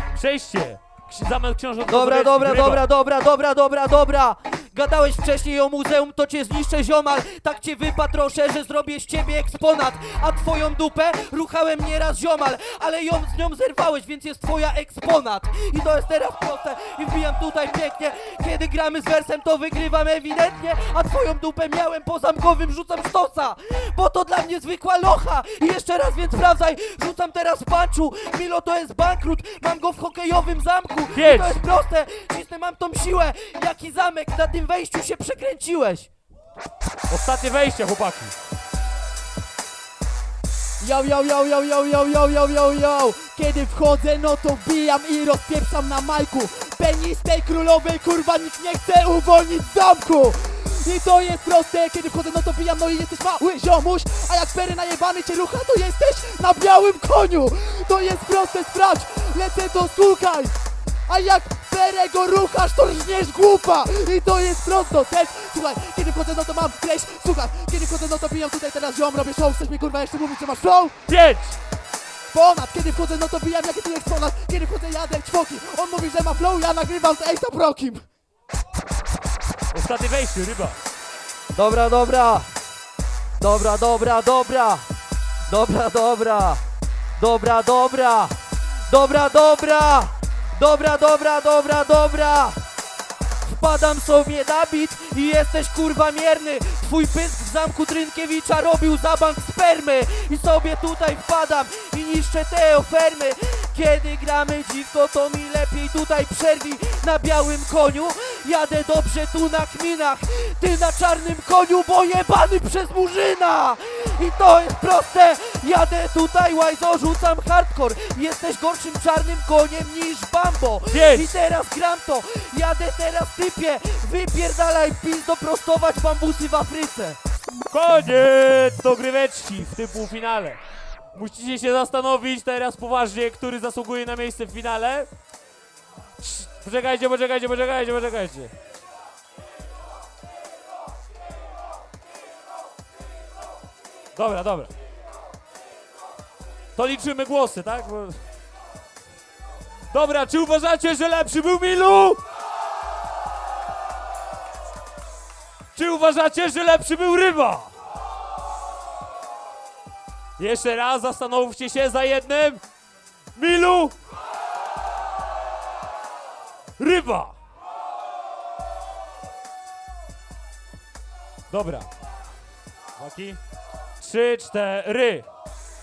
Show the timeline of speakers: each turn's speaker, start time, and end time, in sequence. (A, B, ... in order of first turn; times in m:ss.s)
0:00.1-0:02.9 A
0:01.9-0:36.1 B
0:31.1-0:31.6 A
0:37.1-0:38.4 A
0:40.8-1:00.5 C
1:01.1-1:10.9 C
1:11.1-1:11.6 A
1:12.3-1:18.0 C
1:19.7-1:20.8 A
1:21.5-1:22.5 B
1:23.4-1:24.9 B
1:25.5-1:26.6 B
1:27.2-1:28.4 B
1:28.9-1:32.6 B
1:33.4-2:07.2 B
2:00.9-2:01.4 A
2:07.7-2:10.6 A
2:11.1-2:15.1 A
2:16.2-2:18.5 A
2:24.2-2:24.7 A
2:26.8-2:28.2 A
2:29.9-2:32.2 A
2:35.8-2:37.7 A
2:40.4-2:42.6 A
2:43.4-2:44.0 A
2:46.8-2:47.3 A
2:51.5-2:51.9 A
2:53.0-2:53.4 A
2:54.0-2:55.3 A